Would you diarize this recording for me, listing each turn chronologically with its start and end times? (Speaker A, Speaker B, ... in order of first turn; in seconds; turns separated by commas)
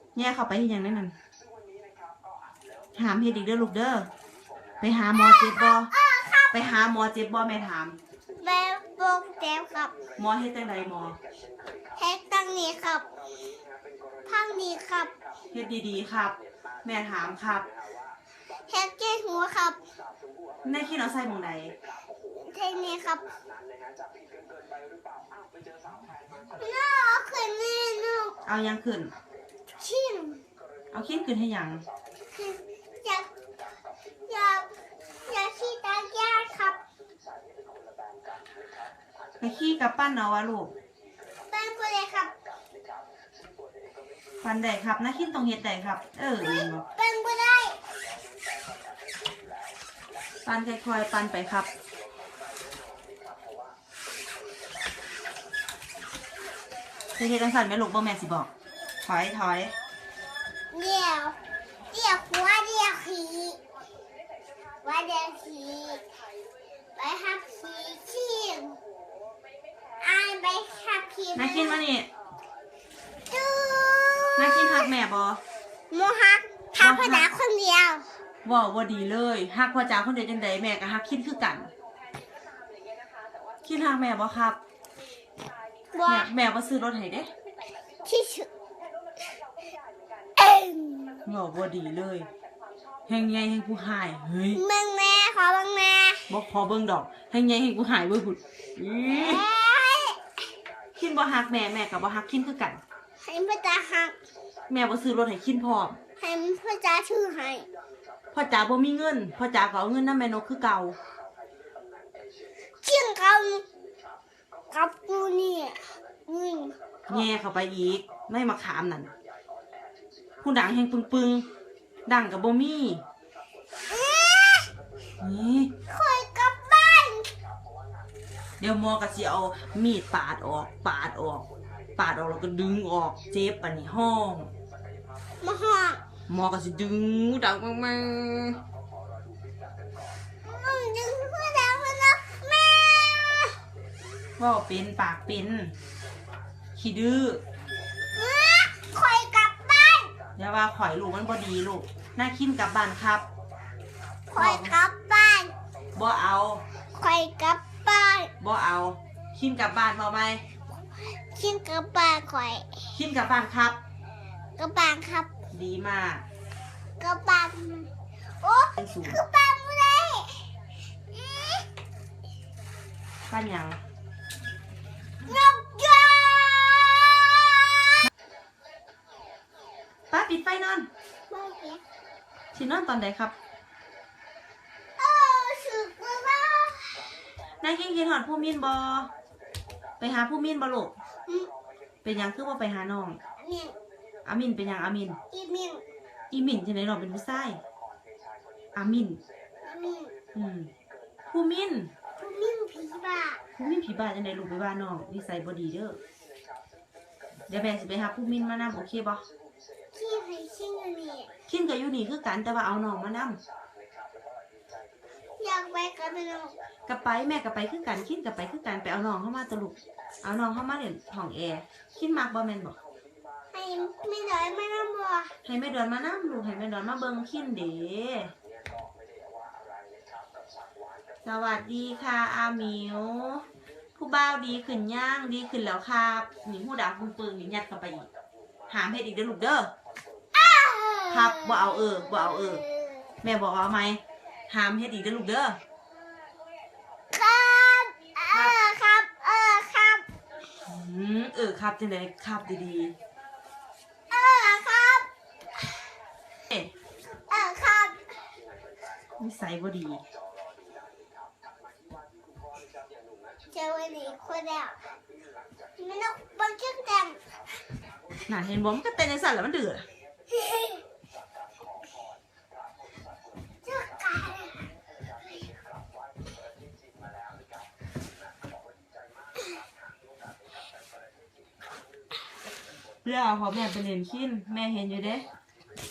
Speaker A: 0.1-1.1, Speaker A: 3.0-4.1, Speaker A: 4.8-5.9, Speaker B: 5.1-6.5, Speaker A: 6.5-8.0, Speaker B: 8.4-9.9, Speaker A: 10.2-11.2, Speaker B: 12.0-13.1, Speaker B: 14.3-15.1, Speaker A: 15.5-17.7, Speaker B: 18.7-19.8, Speaker A: 20.6-21.8, Speaker B: 22.4-23.2, Speaker B: 26.6-28.4, Speaker A: 28.4-29.1, Speaker B: 29.8-30.4, Speaker A: 30.9-31.9, Speaker B: 32.3-33.3, Speaker B: 34.3-34.7, Speaker B: 35.3-36.8, Speaker A: 39.4-40.7, Speaker B: 41.5-42.3, Speaker A: 44.4-46.8, Speaker B: 46.4-47.8, Speaker A: 50.4-51.7, Speaker A: 57.1-58.5, Speaker A: 59.0-59.7, Speaker B: 60.7-61.4, Speaker B: 61.9-63.6, Speaker B: 64.8-66.0, Speaker B: 67.0-68.8, Speaker B: 70.0-71.8, Speaker A: 71.3-72.1, Speaker B: 73.3-74.9, Speaker A: 74.4-75.4, Speaker B: 75.9-78.1, Speaker A: 76.8-77.3, Speaker A: 78.4-81.7, Speaker A: 83.6-84.6, Speaker B: 85.9-86.3, Speaker A: 86.1-87.3, Speaker B: 88.0-88.5, Speaker B: 90.4-91.2, Speaker A: 91.2-92.3, Speaker A: 93.1-94.6, Speaker B: 94.5-96.2, Speaker A: 96.3-99.4, Speaker B: 99.1-100.2, Speaker A: 101.0-102.8, Speaker B: 103.2-104.2, Speaker A: 104.7-106.0, Speaker B: 106.2-107.7, Speaker A: 108.3-111.0, Speaker B: 112.8-113.6, Speaker B: 114.7-117.2, Speaker A: 117.1-119.1, Speaker A: 120.4-121.5, Speaker A: 122.1-123.0, Speaker B: 123.9-124.7, Speaker A: 125.2-125.8, Speaker B: 125.9-127.3, Speaker A: 128.6-131.4, Speaker A: 132.0-134.5, Speaker B: 135.4-136.0, Speaker A: 136.3-138.6, Speaker B: 140.4-143.6, Speaker A: 144.4-145.7, Speaker A: 146.8-147.4, Speaker B: 148.1-150.1, Speaker A: 150.4-153.2, Speaker B: 154.3-155.5, Speaker A: 154.3-154.8, Speaker A: 155.9-156.6, Speaker B: 156.9-158.3, Speaker A: 158.4-160.4, Speaker B: 161.3-162.7, Speaker A: 162.9-163.8, Speaker B: 164.6-165.3, Speaker A: 165.5-166.2, Speaker B: 167.0-167.9, Speaker B: 168.4-170.5, Speaker A: 168.8-169.2, Speaker B: 171.1-171.7, Speaker A: 173.3-173.8, Speaker B: 175.2-178.0, Speaker A: 180.1-180.9, Speaker B: 181.3-181.8, Speaker A: 182.5-183.3, Speaker B: 185.0-187.1, Speaker A: 187.6-189.1, Speaker A: 190.0-190.9, Speaker A: 192.0-193.2, Speaker B: 193.4-193.8, Speaker A: 194.2-195.2, Speaker B: 195.3-195.8, Speaker A: 196.3-197.6, Speaker A: 198.8-199.2, Speaker B: 199.6-200.1, Speaker A: 200.3-200.7, Speaker A: 201.3-201.9, Speaker B: 202.2-203.4, Speaker A: 203.5-206.0, Speaker A: 207.5-209.2, Speaker B: 209.9-211.3, Speaker A: 211.5-213.4, Speaker B: 215.4-216.5, Speaker A: 216.9-222.8, Speaker B: 223.5-225.3, Speaker A: 225.4-228.3, Speaker A: 231.2-233.4, Speaker A: 234.0-238.1, Speaker A: 238.7-239.7, Speaker B: 240.3-243.1, Speaker A: 241.1-242.6, Speaker A: 243.2-245.6, Speaker B: 247.1-250.1, Speaker A: 250.7-252.9, Speaker B: 254.1-255.1, Speaker B: 257.3-258.0, Speaker A: 259.2-260.0, Speaker B: 263.5-264.8, Speaker B: 265.8-267.2, Speaker A: 268.3-269.9, Speaker B: 270.4-270.8, Speaker B: 273.6-274.6, Speaker A: 283.0-285.3